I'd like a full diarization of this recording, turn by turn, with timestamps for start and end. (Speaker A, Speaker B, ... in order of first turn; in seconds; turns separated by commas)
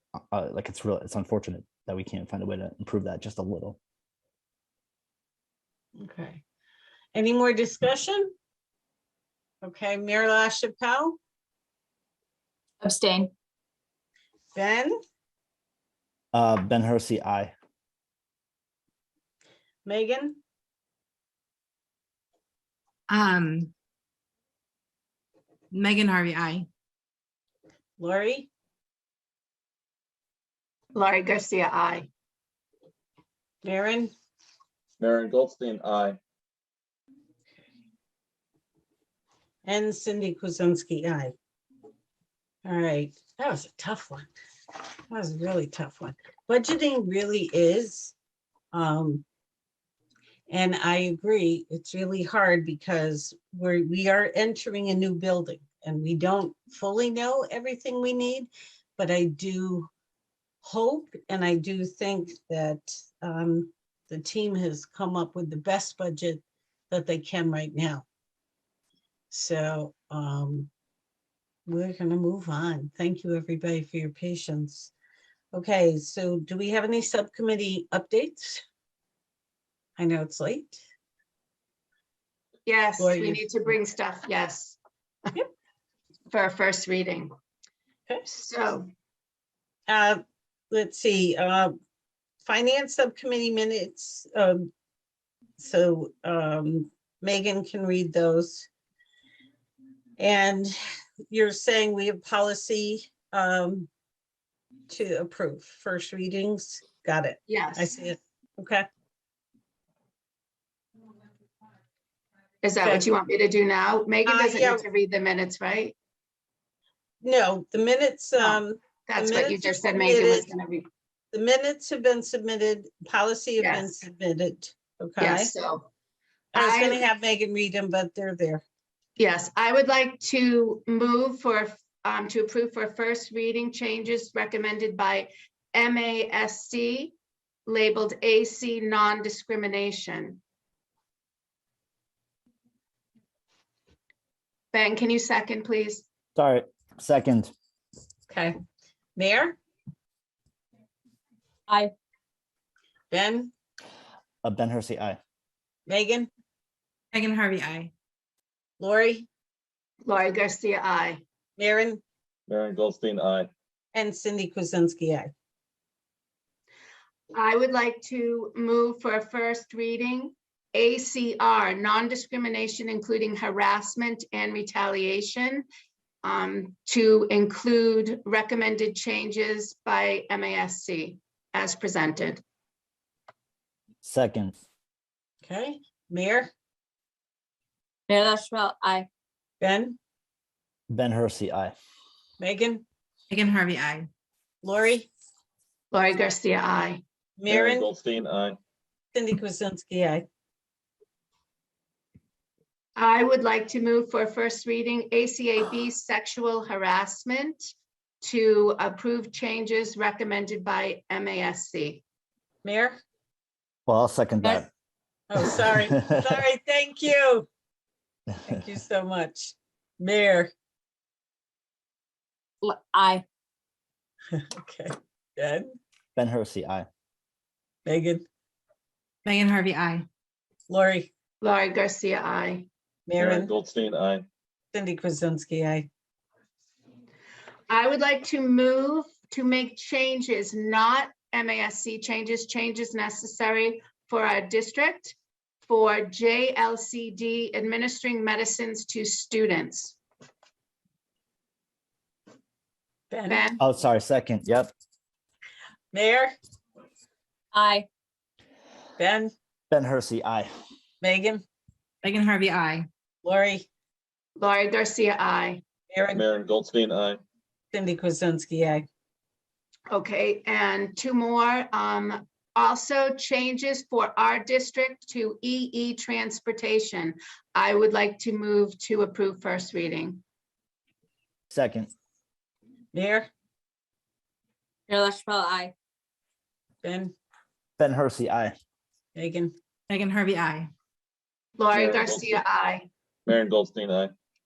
Speaker A: 0.3-3.8, Speaker B: 6.0-6.4, Speaker B: 7.1-8.3, Speaker B: 9.6-11.2, Speaker C: 12.8-13.3, Speaker B: 14.5-15.0, Speaker A: 16.3-17.5, Speaker B: 19.9-20.4, Speaker D: 23.1-23.7, Speaker D: 25.7-26.7, Speaker B: 28.0-28.5, Speaker E: 30.9-32.1, Speaker B: 33.6-34.1, Speaker F: 35.0-36.2, Speaker B: 39.6-41.4, Speaker B: 42.6-44.3, Speaker B: 45.1-48.1, Speaker B: 48.7-49.2, Speaker B: 50.5-59.9, Speaker B: 60.6-68.1, Speaker B: 69.3-70.7, Speaker B: 71.7-74.9, Speaker B: 75.5-78.6, Speaker B: 80.0-80.8, Speaker E: 82.7-84.8, Speaker B: 83.0-83.5, Speaker E: 86.3-87.3, Speaker E: 88.3-88.9, Speaker B: 89.9-91.7, Speaker B: 92.4-94.7, Speaker B: 95.6-98.7, Speaker B: 100.2-100.8, Speaker B: 101.3-103.9, Speaker B: 104.9-108.9, Speaker E: 107.5-107.9, Speaker E: 112.6-115.9, Speaker B: 114.3-114.8, Speaker B: 117.2-120.5, Speaker E: 118.4-120.9, Speaker B: 121.3-125.5, Speaker E: 123.6-123.9, Speaker E: 125.2-125.9, Speaker E: 126.5-127.0, Speaker B: 126.5-128.6, Speaker E: 129.2-137.1, Speaker E: 137.7-140.4, Speaker E: 144.7-146.1, Speaker A: 146.4-147.5, Speaker B: 148.3-148.6, Speaker B: 149.2-149.6, Speaker B: 153.1-153.5, Speaker A: 154.4-155.2, Speaker B: 155.9-156.3, Speaker D: 157.1-157.9, Speaker B: 158.8-159.3, Speaker E: 160.1-161.2, Speaker B: 161.6-162.0, Speaker F: 162.5-163.5, Speaker B: 163.9-165.3, Speaker E: 167.3-175.7, Speaker E: 176.2-182.4, Speaker A: 184.0-184.6, Speaker B: 185.4-186.5, Speaker C: 188.1-189.1, Speaker B: 189.6-190.0, Speaker A: 190.9-191.8, Speaker B: 192.4-192.8, Speaker D: 193.3-194.1, Speaker B: 194.6-195.1, Speaker E: 195.9-197.0, Speaker B: 197.4-197.9, Speaker F: 197.5-198.6, Speaker B: 199.1-200.2, Speaker E: 203.0-212.0, Speaker B: 212.6-213.0, Speaker A: 213.9-214.7, Speaker B: 215.3-217.5, Speaker B: 218.4-220.5, Speaker C: 222.6-223.2, Speaker B: 224.3-225.7, Speaker A: 226.2-226.9, Speaker B: 227.9-228.2, Speaker D: 229.2-230.1, Speaker B: 230.7-231.1, Speaker E: 231.4-232.7, Speaker B: 233.1-233.5, Speaker F: 233.2-234.3, Speaker B: 234.7-235.9, Speaker E: 237.7-250.0, Speaker B: 253.1-253.5, Speaker E: 253.3-253.6, Speaker A: 253.6-254.7, Speaker B: 255.9-256.3, Speaker C: 257.5-257.9, Speaker B: 259.0-259.3, Speaker A: 259.7-260.5, Speaker B: 261.0-261.4, Speaker D: 262.0-262.9, Speaker B: 263.2-263.7, Speaker E: 264.4-265.6, Speaker B: 265.9-266.2, Speaker F: 266.1-267.2, Speaker B: 267.7-268.9, Speaker E: 269.9-280.2, Speaker A: 281.5-281.9, Speaker B: 282.9-283.3, Speaker C: 284.9-285.7, Speaker B: 286.8-287.1, Speaker A: 287.8-288.5, Speaker B: 289.1-289.5, Speaker D: 289.9-290.7, Speaker E: 291.6-292.9, Speaker F: 291.7-292.4, Speaker F: 293.3-294.1